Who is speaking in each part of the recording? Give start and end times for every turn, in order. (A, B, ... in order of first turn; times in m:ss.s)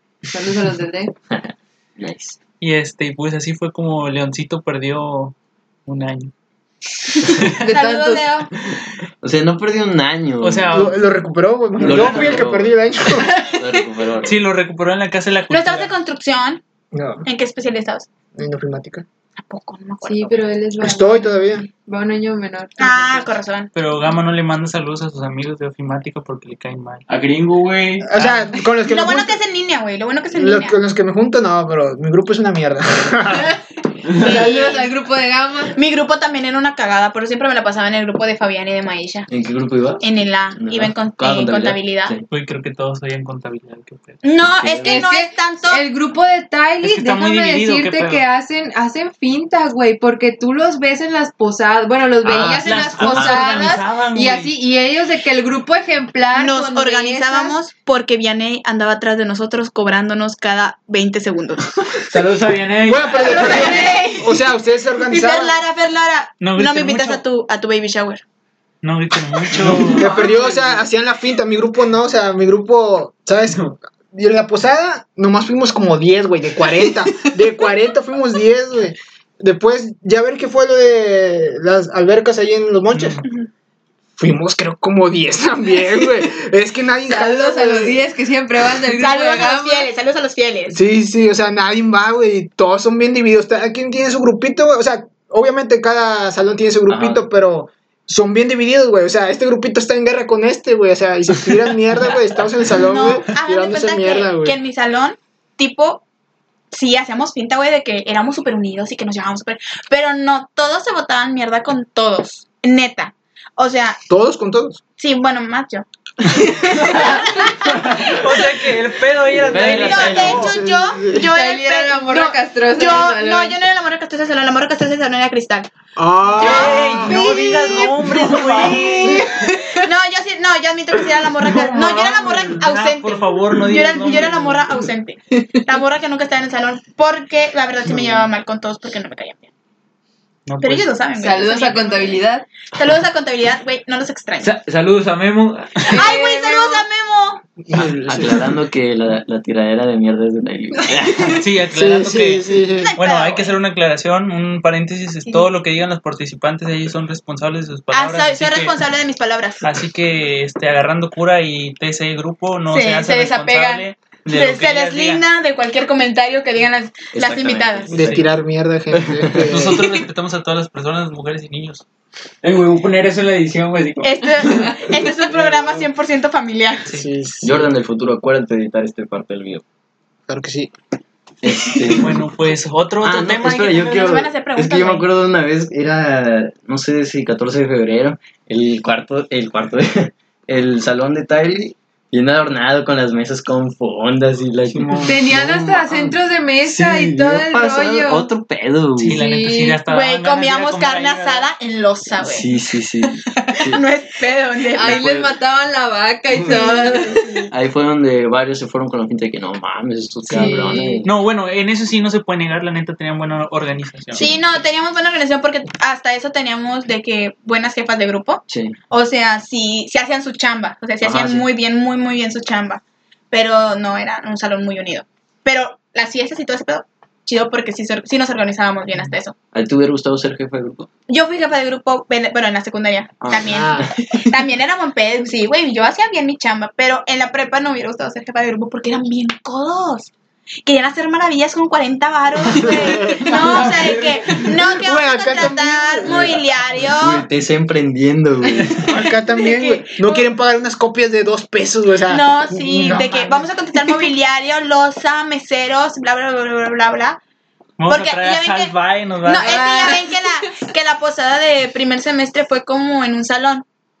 0:00.3-0:01.1 A
0:01.3-0:02.4 B
0:02.6-0:05.3 C
0:05.8-0:06.3 C
0:07.2-0:07.5 C
0:07.6-0:08.3 A
0:07.7-0:08.5 D
0:09.2-0:10.9 B
0:10.4-0:11.0 C
0:10.7-0:13.3 E
0:11.8-0:14.4 B
0:11.8-0:12.4 C
0:13.2-0:13.6 A
0:14.2-0:15.9 C
0:15.5-0:16.6 D
0:16.9-0:17.2 E
0:17.2-0:18.1 D
0:18.3-0:19.0 E
0:19.4-0:20.5 D
0:20.0-0:23.3 A
0:20.8-0:21.7 E
0:22.8-0:23.7 D
0:23.7-0:27.0 C
0:27.1-0:28.1 F
0:28.0-0:29.4 E
0:28.2-0:28.4 C
0:28.8-0:30.8 D
0:30.3-0:33.6 E
0:34.2-0:34.9 D
0:34.2-0:35.8 A
0:35.7-0:39.3 D
0:39.3-0:40.0 B
0:40.0-0:42.1 D
0:40.6-0:42.2 B
0:42.3-0:44.2 C
0:44.2-0:45.8 D
0:44.6-0:45.0 B
0:44.8-0:57.6 A
0:46.8-0:48.2 C
0:52.2-0:53.3 F
0:52.3-0:54.5 C
0:56.3-1:02.0 D
1:02.1-1:03.8 F
1:02.8-1:05.6 E
1:03.1-1:04.4 A
1:03.4-1:04.0 D
1:05.1-1:08.2 D
1:06.4-1:07.2 C
1:08.8-1:10.1 C
1:09.6-1:10.8 F
1:09.9-1:23.2 E
1:22.9-1:23.3 C
1:24.2-1:28.0 E
1:27.0-1:29.9 A
1:29.0-1:30.8 D
1:30.7-1:44.6 E
1:36.9-1:37.2 B
1:42.8-1:46.0 D
1:46.7-1:54.0 D
1:54.1-1:54.8 E
1:55.0-1:55.8 D
1:56.3-1:57.2 A
1:56.8-1:58.1 D
1:57.8-2:00.5 C
1:59.4-2:00.6 B
1:59.6-2:05.7 D
2:00.2-2:01.3 E
2:01.3-2:03.6 A
2:06.0-2:07.2 E
2:06.3-2:08.9 D
2:06.3-2:09.3 C
2:07.0-2:09.9 A
2:08.7-2:09.1 E
2:09.8-2:19.5 D
2:11.5-2:14.7 C
2:20.4-2:20.9 C
2:20.6-2:24.5 D
2:21.2-2:22.4 A
2:24.4-2:25.9 F
2:25.9-2:26.8 A
2:25.9-2:27.4 D
2:27.6-2:28.6 E
2:27.7-2:31.4 B
2:31.3-2:38.7 C
2:31.7-2:32.9 E
2:32.8-2:33.6 D
2:37.9-2:39.6 D
2:39.6-2:45.2 C
2:42.7-2:47.9 D
2:47.1-2:48.3 B
2:47.9-2:49.9 E
2:47.9-2:48.3 C
2:48.9-2:49.8 B
2:49.5-2:51.8 C
2:52.4-2:55.8 F
2:54.0-2:56.9 D
2:56.9-2:57.7 E
2:57.4-2:59.6 B
3:00.3-3:00.7 E
3:01.4-3:02.2 B
3:02.0-3:04.2 C
3:03.0-3:19.2 B
3:03.9-3:05.1 D
3:14.7-3:15.2 F
3:15.0-3:18.3 A
3:19.0-3:21.5 C
3:19.1-3:19.8 A
3:19.9-3:22.5 D
3:22.2-3:23.8 B
3:23.7-3:25.1 D
3:24.7-3:27.5 A
3:24.8-3:25.3 B
3:26.4-3:27.5 D
3:27.5-3:31.1 B
3:30.2-3:31.1 A
3:31.0-3:34.3 C
3:34.1-3:34.4 B
3:34.2-3:49.3 D
3:38.5-3:38.8 B
3:41.0-3:41.5 B
3:49.5-3:50.9 B
3:51.1-4:00.1 D
3:53.2-3:53.9 B
3:53.4-3:53.9 E
4:00.6-4:07.2 D
4:02.6-4:03.3 E
4:03.2-4:04.6 F
4:04.7-4:06.3 E
4:06.0-4:08.8 B
4:08.8-4:13.4 E
4:09.3-4:10.3 D
4:12.1-4:17.2 D
4:17.8-4:19.6 C
4:17.9-4:23.6 D
4:19.4-4:20.5 A